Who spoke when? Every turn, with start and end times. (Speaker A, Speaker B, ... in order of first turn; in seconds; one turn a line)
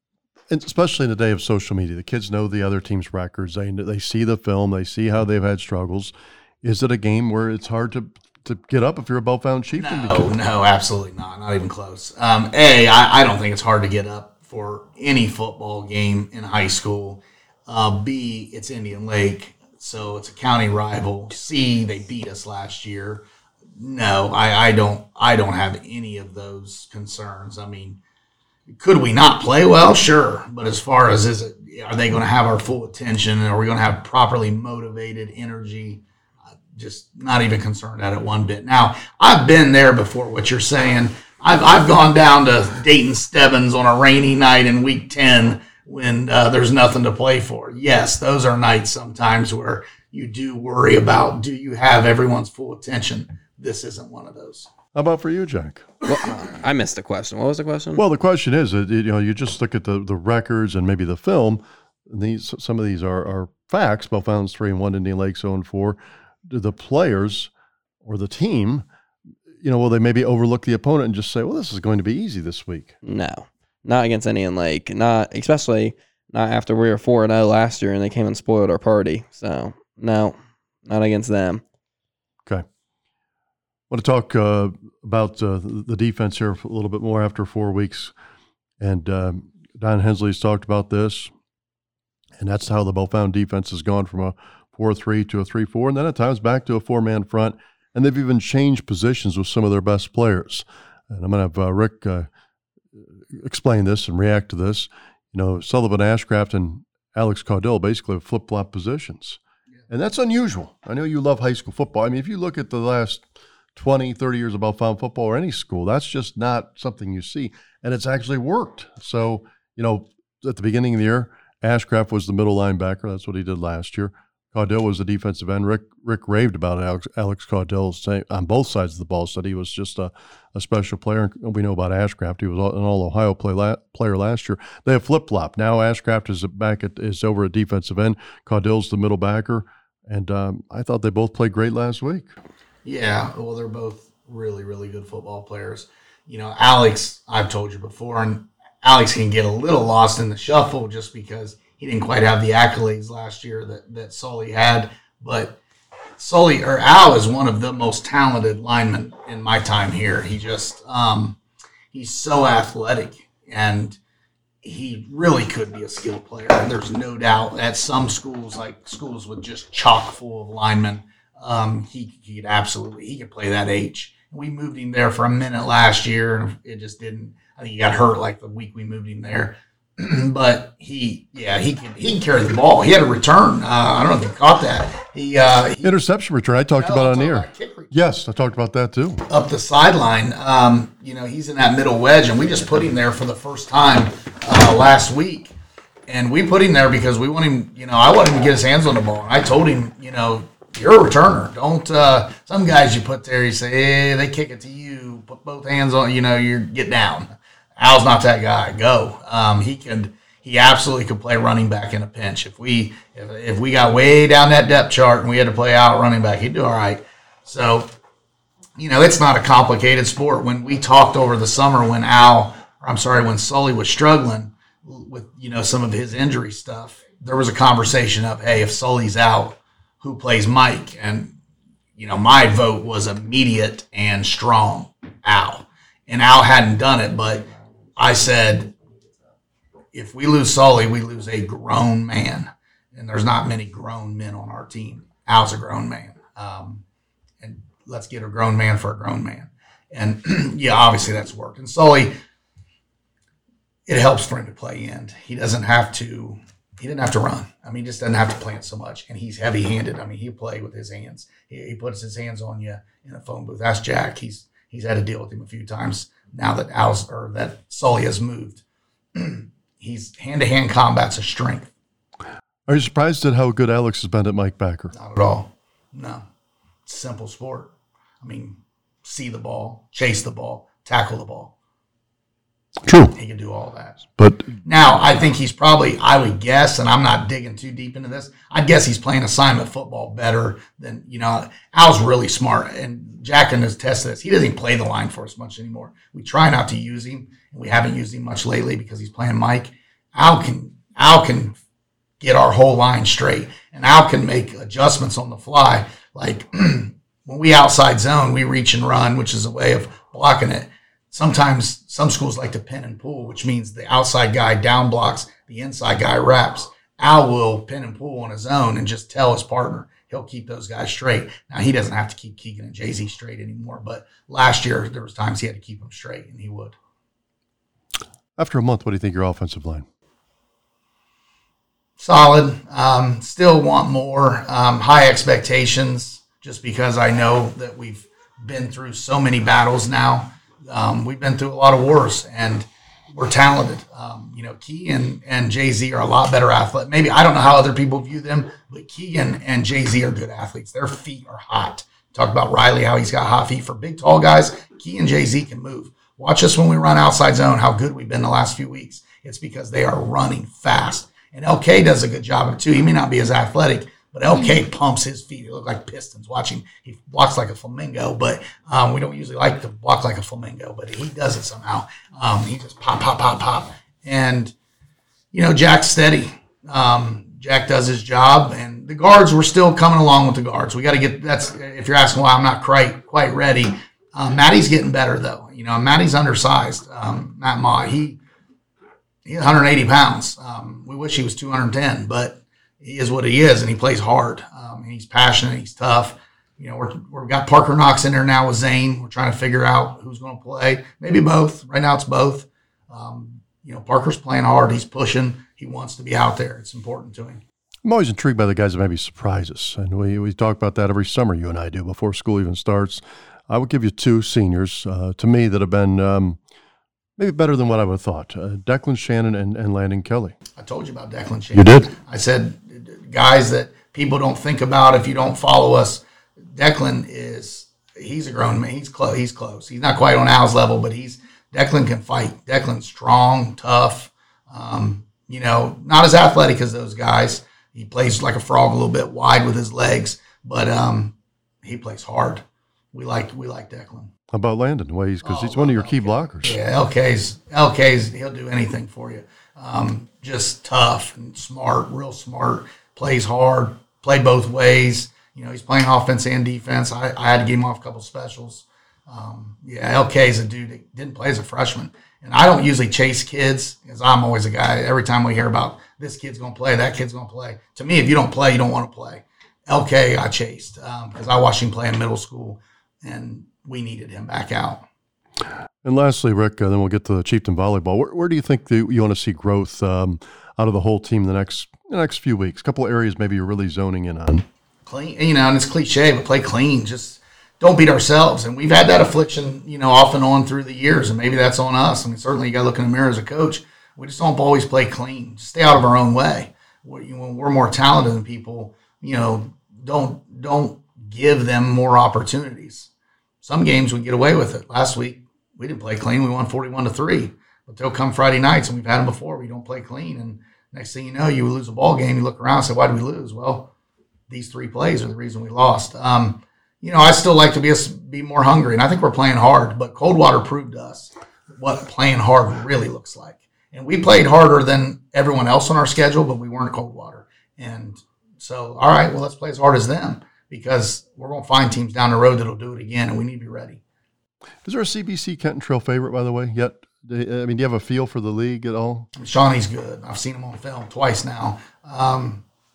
Speaker A: 0.5-10.3
Speaker B: 9.8-28.0
Speaker B: 28.7-36.0
Speaker B: 36.7-54.7
Speaker A: 55.0-55.9
Speaker C: 56.0-58.0
Speaker A: 58.0-67.5
Speaker A: 68.0-68.9
Speaker A: 69.5-73.0
Speaker C: 73.0-81.6
Speaker A: 83.9-88.1
Speaker A: 88.8-91.3
Speaker A: 92.4-102.3
Speaker A: 102.9-142.3
Speaker B: 142.8-155.6
Speaker B: 156.2-161.4
Speaker B: 161.9-164.0
Speaker B: 164.6-186.0
Speaker A: 185.8-189.3
Speaker B: 186.8-187.9
Speaker B: 189.3-195.5
Speaker B: 196.1-217.9
Speaker B: 218.8-231.4
Speaker B: 232.0-238.7
Speaker B: 239.9-246.8
Speaker B: 247.4-252.2
Speaker B: 253.9-268.6
Speaker B: 269.1-271.7
Speaker A: 272.7-274.9
Speaker B: 274.9-276.2
Speaker B: 276.9-281.5
Speaker A: 282.8-283.1
Speaker B: 283.1-284.1
Speaker A: 284.2-284.6
Speaker B: 284.6-301.6
Speaker B: 302.2-326.8
Speaker A: 328.4-329.9
Speaker B: 332.0-374.5
Speaker B: 375.3-388.2
Speaker B: 389.2-407.4
Speaker A: 407.8-416.4
Speaker A: 417.2-420.4
Speaker B: 420.6-444.1
Speaker A: 421.5-421.9
Speaker A: 444.3-446.6
Speaker B: 445.2-474.9
Speaker A: 475.8-484.5
Speaker B: 484.9-502.9
Speaker B: 503.4-513.7
Speaker B: 514.3-533.8
Speaker A: 534.6-539.1
Speaker B: 539.1-542.5